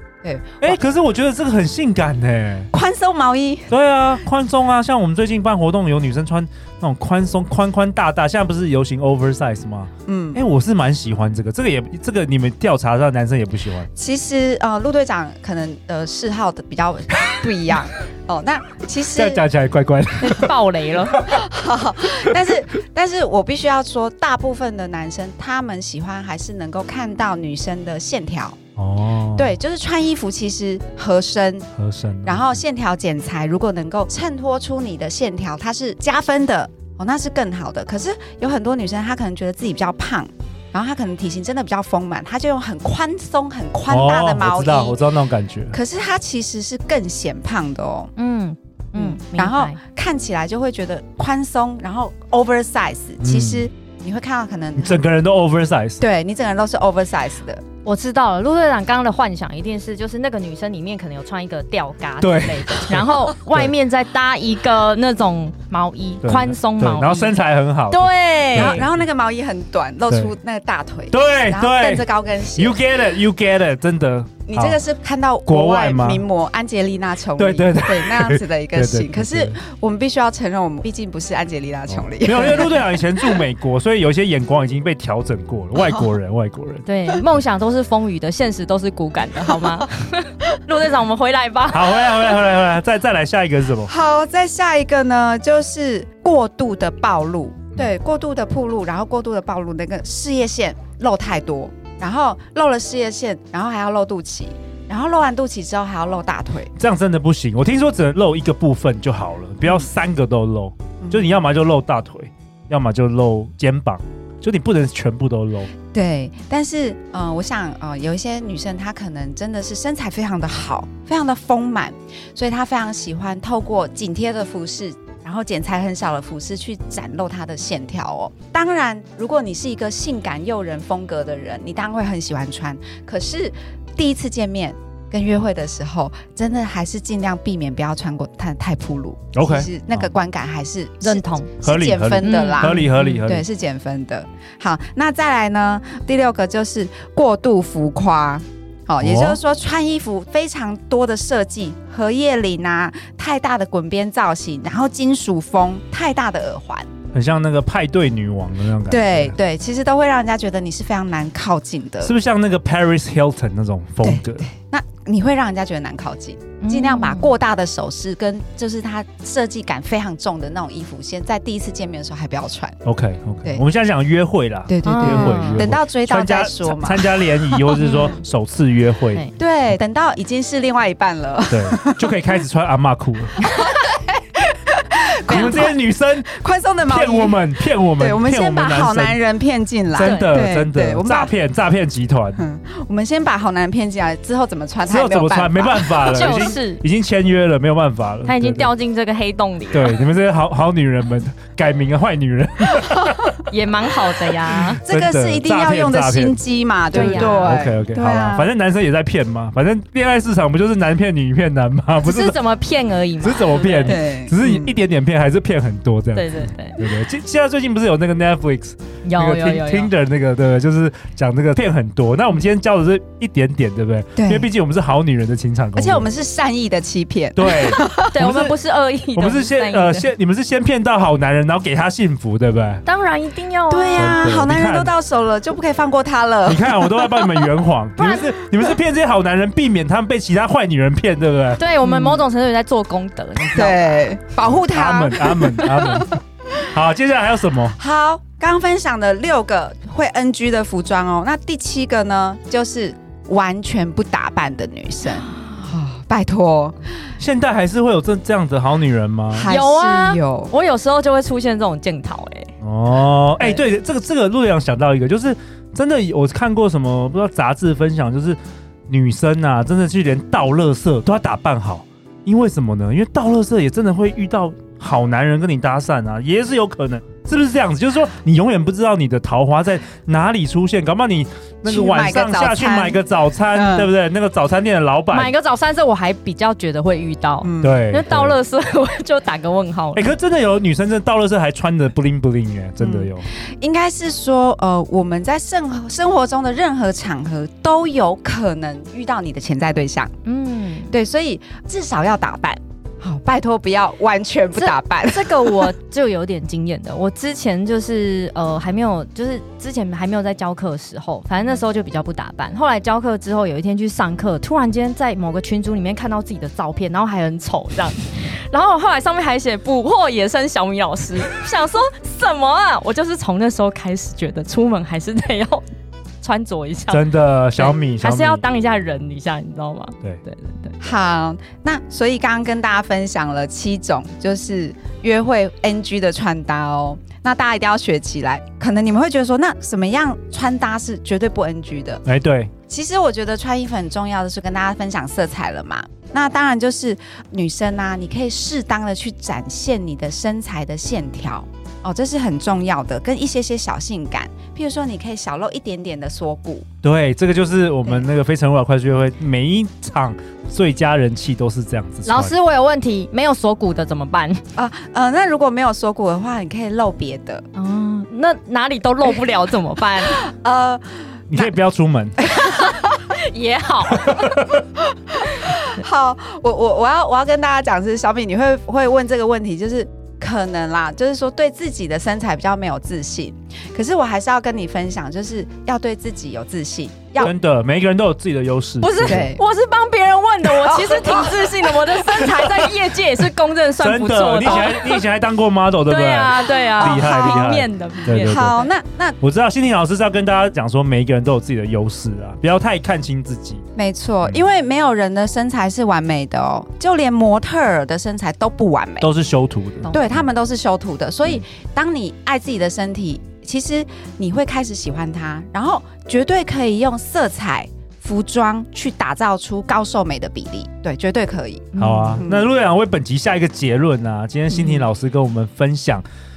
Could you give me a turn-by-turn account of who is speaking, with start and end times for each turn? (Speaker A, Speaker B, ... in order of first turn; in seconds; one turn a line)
Speaker A: 0.2-0.8
Speaker B: 0.6-2.7
Speaker A: 2.7-3.7
Speaker B: 3.7-13.9
Speaker A: 10.1-10.4
Speaker A: 14.0-19.4
Speaker B: 19.1-20.5
Speaker C: 20.2-21.3
Speaker A: 21.2-28.6
Speaker B: 28.8-29.5
Speaker A: 29.4-31.7
Speaker B: 31.8-32.6
Speaker A: 32.2-45.0
Speaker B: 43.9-45.8
Speaker A: 45.7-48.1
Speaker C: 48.2-49.8
Speaker A: 49.0-55.0
Speaker B: 53.2-53.7
Speaker B: 54.8-56.0
Speaker A: 56.0-57.6
Speaker C: 57.9-68.8
Speaker B: 62.2-63.7
Speaker B: 66.2-69.0
Speaker A: 68.5-72.8
Speaker B: 70.1-70.3
Speaker B: 71.1-72.0
Speaker B: 72.6-74.8
Speaker A: 74.5-83.4
Speaker B: 75.5-76.2
Speaker B: 77.4-79.6
Speaker B: 81.9-86.8
Speaker C: 86.8-92.1
Speaker B: 91.7-93.9
Speaker A: 93.9-106.7
Speaker B: 106.8-115.7
Speaker A: 111.0-111.3
Speaker A: 115.9-156.9
Speaker B: 139.3-140.1
Speaker C: 141.0-141.5
Speaker B: 141.6-143.4
Speaker C: 142.2-143.2
Speaker B: 149.0-149.4
Speaker B: 157.1-159.3
Speaker A: 158.9-162.1
Speaker B: 162.0-164.5
Speaker A: 164.0-172.8
Speaker C: 166.6-167.3
Speaker B: 172.8-179.2
Speaker A: 174.7-177.8
Speaker C: 174.8-175.7
Speaker C: 177.8-178.2
Speaker A: 179.4-182.2
Speaker B: 181.5-183.4
Speaker A: 183.4-191.3
Speaker B: 185.3-186.3
Speaker B: 186.9-189.2
Speaker B: 189.9-192.4
Speaker C: 190.0-190.4
Speaker A: 192.4-196.3
Speaker B: 194.9-198.7
Speaker C: 195.9-196.8
Speaker C: 198.2-200.0
Speaker B: 199.7-203.3
Speaker C: 203.5-204.8
Speaker B: 204.5-206.4
Speaker A: 204.8-208.5
Speaker B: 206.9-212.4
Speaker C: 206.9-207.7
Speaker C: 212.0-214.0
Speaker B: 213.2-226.1
Speaker A: 213.9-214.8
Speaker C: 216.1-216.8
Speaker C: 219.0-219.9
Speaker A: 224.2-224.5
Speaker A: 225.8-228.1
Speaker B: 227.3-228.6
Speaker C: 228.0-230.1
Speaker B: 229.2-232.8
Speaker C: 232.9-234.3
Speaker A: 233.7-237.5
Speaker B: 234.0-234.9
Speaker B: 236.5-241.6
Speaker C: 241.6-243.8
Speaker A: 241.8-242.2
Speaker A: 243.5-246.1
Speaker B: 244.7-247.8
Speaker A: 247.8-256.8
Speaker B: 257.2-259.5
Speaker A: 259.3-260.5
Speaker C: 259.5-262.5
Speaker B: 262.6-268.4
Speaker B: 268.9-285.3
Speaker A: 281.6-283.0
Speaker A: 283.5-283.9
Speaker C: 285.1-290.1
Speaker A: 287.4-287.8
Speaker B: 287.6-288.4
Speaker B: 289.9-293.3
Speaker A: 292.8-300.1
Speaker C: 300.2-300.9
Speaker A: 300.9-305.7
Speaker C: 304.6-325.7
Speaker C: 326.2-330.8
Speaker B: 326.9-328.4
Speaker A: 330.8-342.0
Speaker B: 342.1-342.5
Speaker A: 342.7-356.7
Speaker B: 356.8-362.3
Speaker C: 362.1-364.4
Speaker A: 364.6-367.4
Speaker C: 367.6-370.2
Speaker A: 370.0-371.5
Speaker B: 371.3-372.2
Speaker A: 372.2-373.0
Speaker C: 372.4-374.5
Speaker B: 374.1-374.6
Speaker A: 375.1-387.3
Speaker B: 387.2-389.3
Speaker C: 388.8-395.1
Speaker A: 389.0-389.4
Speaker A: 390.4-392.3
Speaker B: 392.2-392.7
Speaker B: 393.8-398.6
Speaker C: 395.9-398.7
Speaker A: 396.8-397.5
Speaker A: 398.2-399.2
Speaker B: 399.2-403.6
Speaker A: 403.8-409.1
Speaker B: 409.0-409.9
Speaker C: 409.9-410.2
Speaker A: 409.9-422.5
Speaker C: 421.7-422.2
Speaker B: 421.8-426.1
Speaker A: 424.5-424.9